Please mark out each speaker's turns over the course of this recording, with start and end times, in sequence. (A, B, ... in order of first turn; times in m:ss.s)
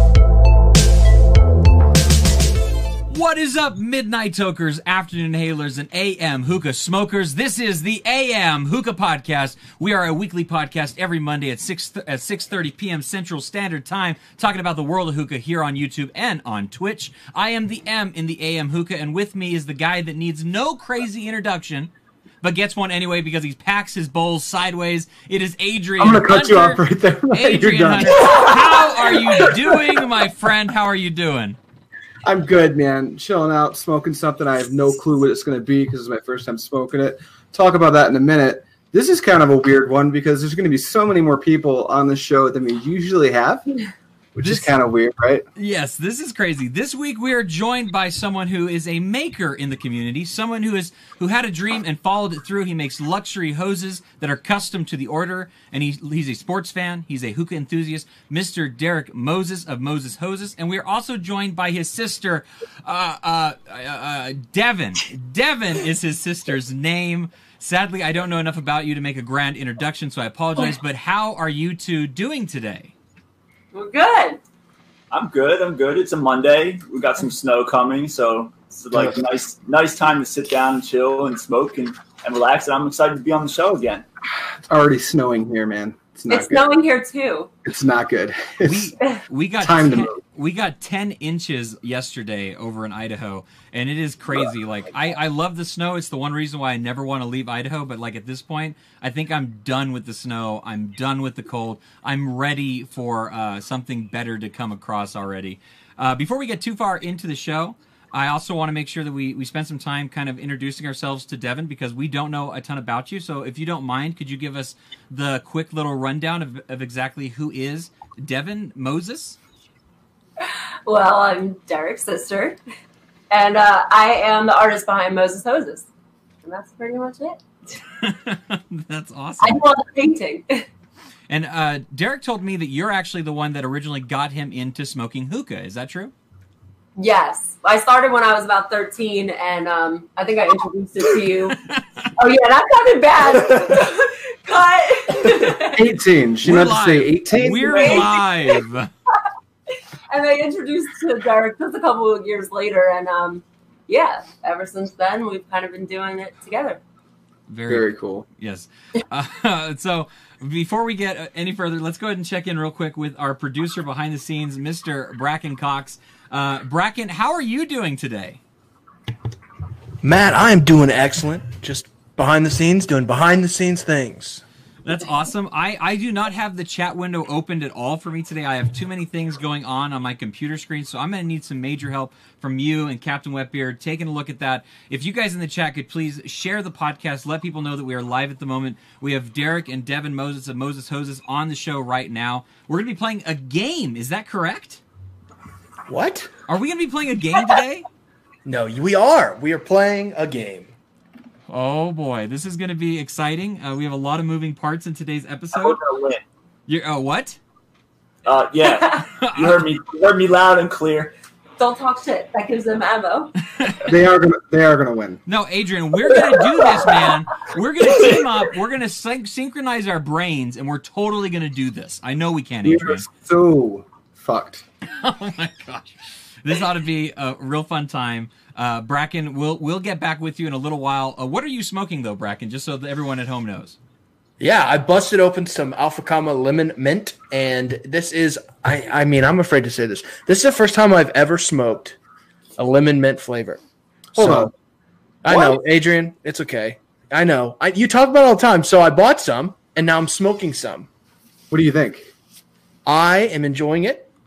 0:03.1-0:21.9 A
0:22.4-0:31.6 A
0:26.0-0:28.4 B
0:32.2-0:43.7 B
0:44.3-0:45.5 B
0:44.4-0:44.7 A
0:45.6-1:12.9 A
1:13.7-1:14.4 C
1:15.1-1:24.0 D
1:24.7-1:26.7 B
1:26.3-1:27.5 C
1:27.6-1:30.2 B
1:28.6-1:59.4 A
2:00.5-2:02.6 C
2:03.3-2:05.9 C
2:06.4-2:07.4 C
2:08.0-2:09.7 A
2:09.4-2:10.7 C
2:11.3-2:16.1 A
2:17.0-2:21.6 C
2:21.6-2:22.1 A
2:22.2-2:26.0 C
2:25.4-2:27.8 B
2:26.4-2:28.9 A
2:27.7-2:28.1 D
2:27.7-2:28.6 C
2:30.1-2:36.8 C
2:37.5-2:48.4 A
2:37.7-2:38.2 B
2:50.0-2:54.4 E
2:54.8-3:14.8 A
3:15.9-3:16.3 E
3:16.5-3:17.8 A
3:18.4-3:20.7 E
3:21.5-3:25.8 A
3:25.5-3:26.2 D
3:26.7-3:27.4 A
3:28.2-3:31.1 D
3:29.2-3:29.6 A
3:31.6-3:33.7 C
3:33.6-3:33.9 A
3:33.8-3:35.2 B
3:35.2-3:43.1 A
3:37.9-3:38.2 D
3:42.6-3:44.6 B
3:45.0-3:53.8 A
3:54.4-4:02.0 E
4:02.6-4:03.6 E
4:04.1-4:04.5 E
4:04.2-4:04.5 B
4:05.2-4:10.9 E
4:05.3-4:05.5 B
4:11.5-4:12.1 B
4:12.8-4:14.1 E